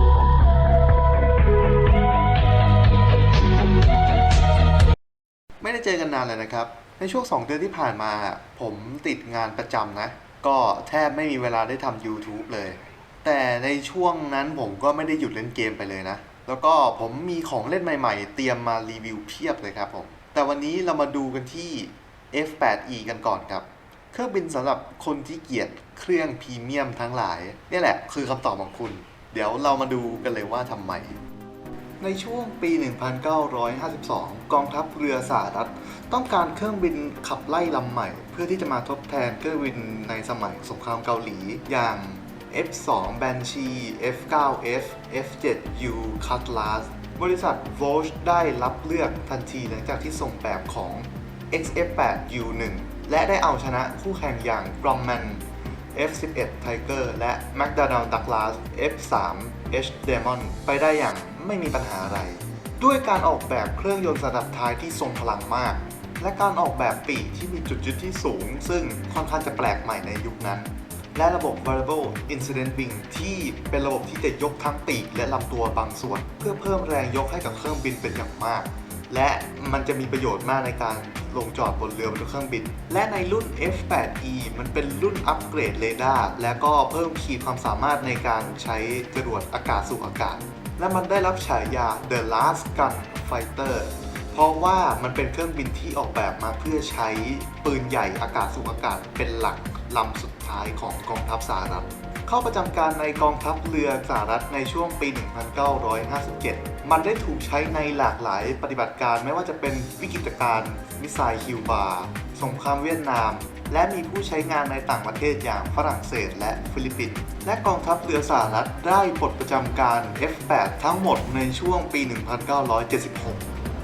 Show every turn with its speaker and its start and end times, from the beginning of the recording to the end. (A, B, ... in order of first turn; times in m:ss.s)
0:05.6-0:31.2 A
0:32.0-2:03.5 A